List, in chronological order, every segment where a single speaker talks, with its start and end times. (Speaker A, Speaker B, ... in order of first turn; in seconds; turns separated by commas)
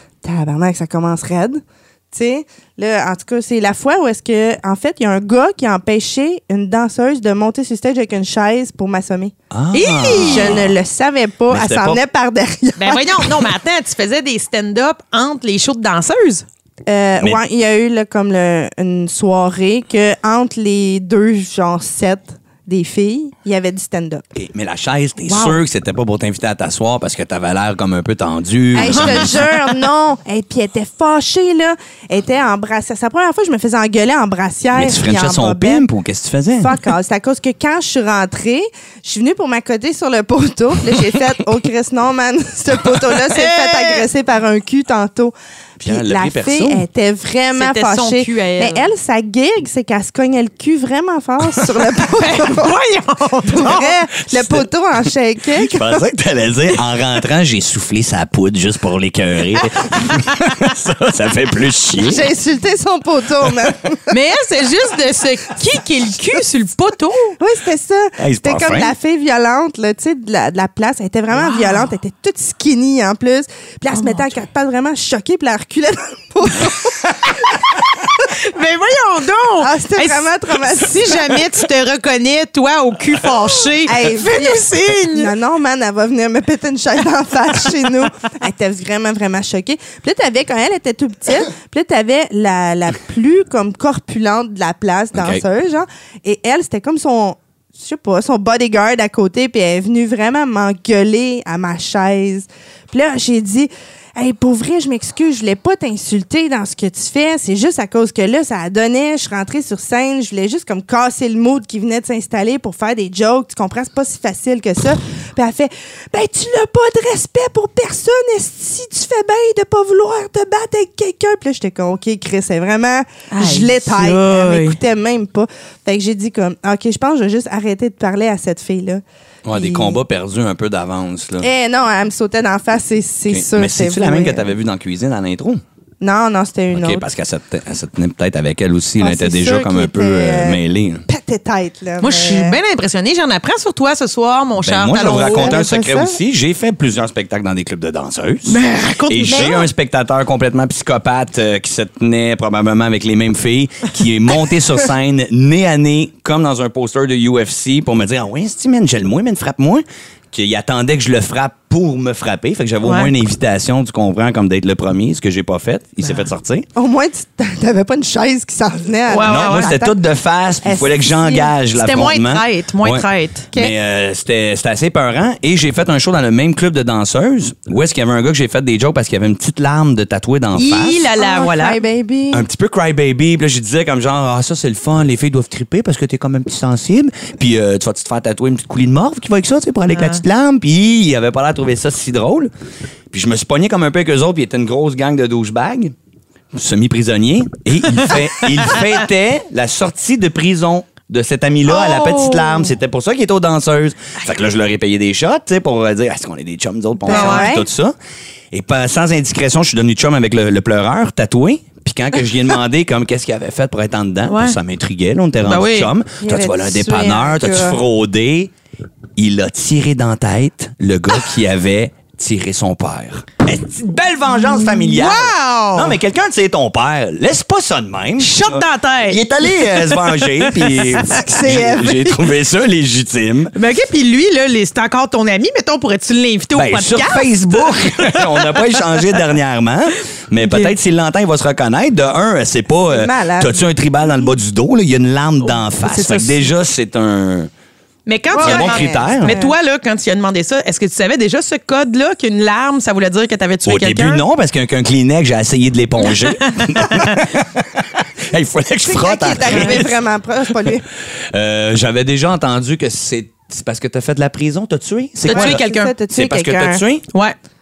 Speaker A: 0.2-9.3, Speaker B: 9.5-10.8, Speaker C: 9.7-10.6, Speaker A: 10.3-13.3, Speaker B: 11.5-12.0, Speaker C: 12.8-16.4, Speaker A: 16.9-24.2, Speaker B: 24.4-29.5, Speaker A: 25.3-25.6, Speaker A: 28.7-35.9, Speaker C: 28.8-29.4, Speaker B: 34.7-36.8, Speaker A: 36.6-52.7, Speaker C: 43.3-44.0, Speaker B: 45.8-46.8, Speaker C: 47.5-48.9, Speaker C: 52.2-53.9, Speaker A: 53.5-56.0, Speaker B: 54.4-54.6, Speaker B: 55.5-62.2, Speaker C: 59.6-60.7, Speaker A: 62.1-64.1, Speaker C: 64.1-67.4, Speaker A: 67.4-77.8, Speaker B: 68.2-68.9, Speaker C: 71.4-71.9, Speaker C: 74.0-74.2, Speaker C: 78.3-85.3, Speaker A: 79.6-81.5, Speaker A: 83.8-130.0, Speaker B: 95.1-95.4, Speaker C: 123.3-124.8, Speaker B: 129.4-131.5, Speaker A: 131.4-134.5, Speaker B: 133.3-135.6, Speaker A: 136.0-137.1, Speaker B: 136.7-141.1, Speaker A: 139.0-142.6, Speaker C: 142.0-145.6, Speaker B: 144.6-166.7, Speaker A: 145.2-146.2, Speaker C: 148.5-149.6, Speaker A: 149.3-149.7, Speaker C: 162.8-163.1, Speaker A: 166.8-170.0, Speaker C: 169.1-169.8, Speaker B: 169.2-181.1, Speaker A: 170.6-171.5, Speaker C: 171.7-173.5, Speaker C: 180.6-181.8, Speaker A: 181.2-182.5, Speaker B: 182.3-192.5, Speaker C: 189.9-190.2, Speaker B: 193.1-195.9, Speaker B: 196.5-207.9, Speaker C: 201.7-202.7, Speaker A: 207.1-207.7, Speaker C: 207.1-207.5, Speaker B: 208.5-218.5, Speaker C: 214.3-214.6, Speaker C: 215.4-215.9, Speaker A: 216.2-217.8, Speaker B: 219.2-233.5, Speaker C: 224.6-225.9, Speaker C: 228.2-231.2, Speaker A: 231.1-232.2, Speaker C: 233.5-239.2, Speaker B: 236.5-247.5, Speaker C: 240.4-240.7, Speaker A: 242.9-243.6, Speaker A: 245.8-246.4, Speaker C: 248.1-254.2, Speaker A: 248.3-249.5, Speaker B: 248.4-249.4, Speaker B: 253.7-260.0, Speaker C: 256.0-257.2, Speaker A: 258.8-260.9, Speaker C: 259.5-259.8, Speaker B: 261.3-267.1, Speaker C: 265.3-265.9, Speaker A: 265.3-266.8